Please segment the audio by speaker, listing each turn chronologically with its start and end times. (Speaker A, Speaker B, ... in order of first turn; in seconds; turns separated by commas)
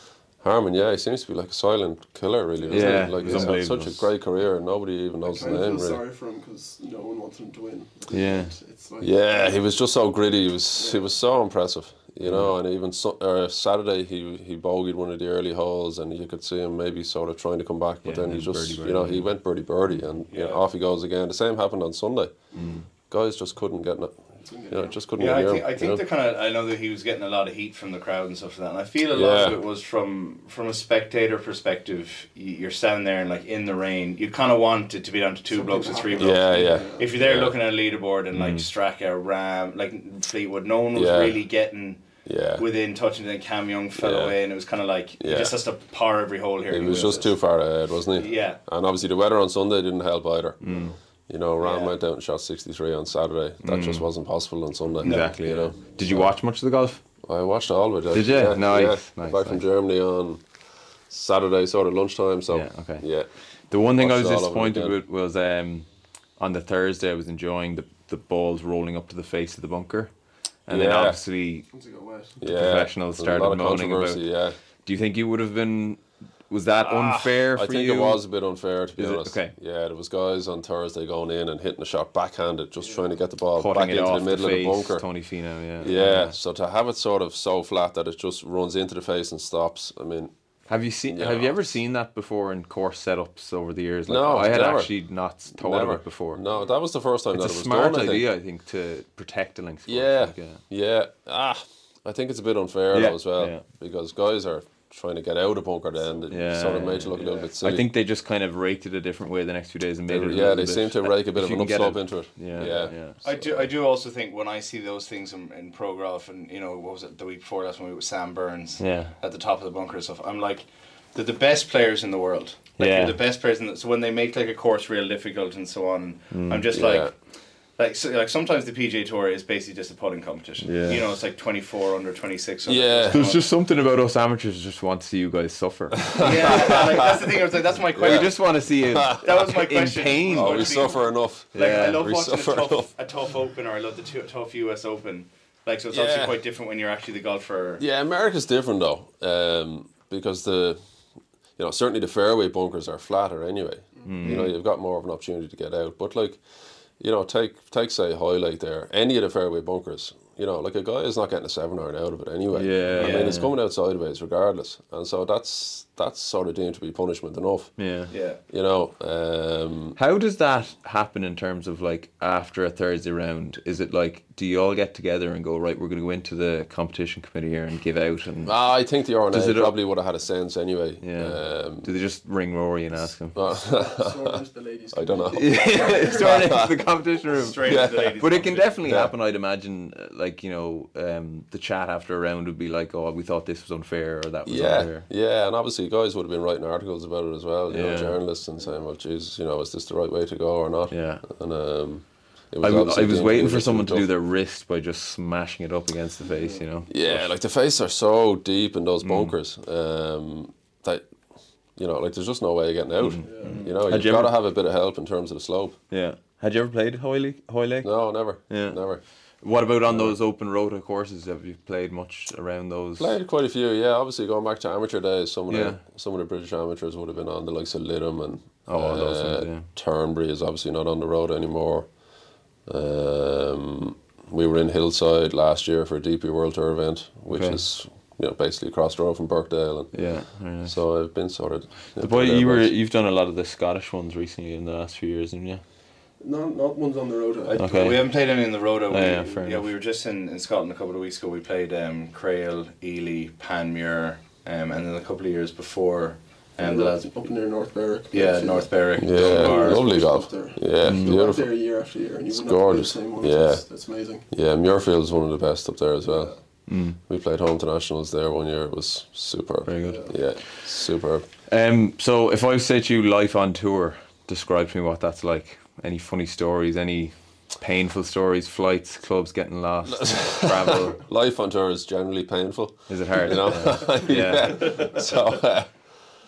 Speaker A: 0.4-6.0, Speaker B: 2.7-3.1, Speaker C: 2.7-4.0, Speaker D: 3.2-3.5, Speaker B: 5.2-9.6, Speaker C: 8.1-8.5, Speaker A: 9.0-22.4, Speaker B: 10.7-11.0, Speaker C: 12.2-12.5, Speaker C: 18.0-19.3, Speaker D: 20.3-20.6, Speaker C: 22.5-22.9, Speaker A: 23.1-26.0, Speaker B: 24.4-25.0, Speaker D: 25.2-42.0, Speaker A: 29.1-29.6, Speaker B: 35.5-37.1, Speaker A: 36.2-37.5, Speaker C: 38.3-38.7, Speaker A: 40.9-41.4, Speaker A: 42.2-42.6, Speaker D: 42.6-47.3, Speaker A: 44.0-44.4, Speaker A: 45.2-45.6, Speaker A: 46.7-56.3, Speaker D: 48.1-48.6, Speaker C: 50.6-51.0, Speaker D: 51.6-51.9, Speaker C: 53.6-54.1, Speaker C: 55.0-57.0, Speaker D: 55.0-55.4, Speaker A: 57.2-60.4, Speaker C: 58.1-59.6, Speaker A: 61.1-63.3, Speaker C: 62.5-63.0, Speaker C: 63.7-65.9, Speaker A: 64.0-65.0, Speaker C: 66.4-70.1, Speaker C: 70.7-71.7, Speaker A: 70.7-71.2, Speaker B: 71.7-72.4, Speaker A: 72.4-74.6, Speaker C: 72.4-74.2, Speaker C: 74.8-78.2, Speaker A: 76.8-85.0, Speaker C: 79.0-79.5, Speaker B: 82.8-83.1, Speaker C: 83.5-86.3, Speaker A: 85.8-90.3, Speaker C: 90.7-96.4, Speaker A: 91.1-91.7, Speaker A: 94.1-94.9, Speaker A: 95.5-98.3, Speaker C: 97.3-100.6, Speaker A: 99.9-107.9, Speaker C: 102.9-103.6, Speaker C: 106.3-113.2, Speaker A: 110.1-113.7, Speaker D: 113.2-127.1, Speaker C: 118.8-119.1, Speaker C: 122.8-123.2, Speaker C: 126.3-126.6, Speaker A: 126.7-127.1, Speaker D: 127.8-133.4, Speaker C: 130.6-131.0, Speaker A: 132.7-133.2, Speaker C: 133.1-136.8, Speaker A: 136.0-137.2, Speaker D: 136.2-138.3, Speaker A: 137.9-139.3, Speaker C: 138.0-140.7, Speaker D: 139.0-147.8, Speaker A: 140.3-142.9, Speaker C: 141.5-142.0, Speaker A: 145.9-146.4, Speaker A: 147.8-150.8, Speaker A: 151.6-156.4, Speaker C: 154.0-154.5, Speaker A: 157.0-167.7, Speaker C: 162.5-163.5, Speaker D: 163.0-163.4, Speaker C: 167.8-168.1, Speaker D: 168.1-168.4, Speaker A: 168.5-170.0, Speaker C: 169.9-178.5, Speaker A: 178.4-181.9, Speaker C: 179.3-179.7, Speaker C: 181.0-183.4, Speaker A: 183.3-184.4, Speaker B: 183.4-186.6, Speaker A: 184.9-186.7, Speaker C: 185.3-195.1, Speaker D: 187.3-188.8, Speaker A: 187.6-188.2, Speaker A: 188.8-189.1, Speaker A: 194.4-204.1, Speaker C: 197.7-198.2, Speaker C: 200.9-201.2, Speaker C: 202.6-207.3, Speaker B: 206.2-206.6, Speaker A: 206.9-211.1, Speaker C: 209.0-209.3, Speaker A: 211.8-215.8, Speaker C: 213.0-214.3, Speaker B: 213.2-213.6, Speaker C: 215.9-217.9, Speaker A: 217.8-219.0, Speaker C: 218.5-218.8, Speaker C: 219.4-223.1, Speaker A: 219.9-220.2, Speaker A: 223.0-231.9, Speaker C: 225.5-225.8, Speaker C: 228.7-229.7, Speaker A: 232.7-240.1, Speaker C: 237.3-237.6, Speaker C: 239.9-240.8, Speaker A: 240.6-242.7, Speaker C: 242.0-245.6, Speaker B: 246.2-247.6, Speaker D: 247.5-257.1, Speaker C: 247.6-248.1, Speaker C: 248.9-249.7, Speaker B: 256.6-264.2, Speaker D: 258.1-259.8, Speaker A: 259.0-261.5, Speaker C: 260.8-261.2, Speaker A: 262.3-263.6, Speaker A: 264.3-266.3, Speaker B: 266.0-266.4, Speaker C: 266.7-267.0, Speaker A: 267.0-271.2, Speaker C: 269.6-270.1, Speaker B: 269.8-270.1, Speaker C: 271.5-281.0, Speaker A: 279.9-285.7, Speaker C: 282.9-284.9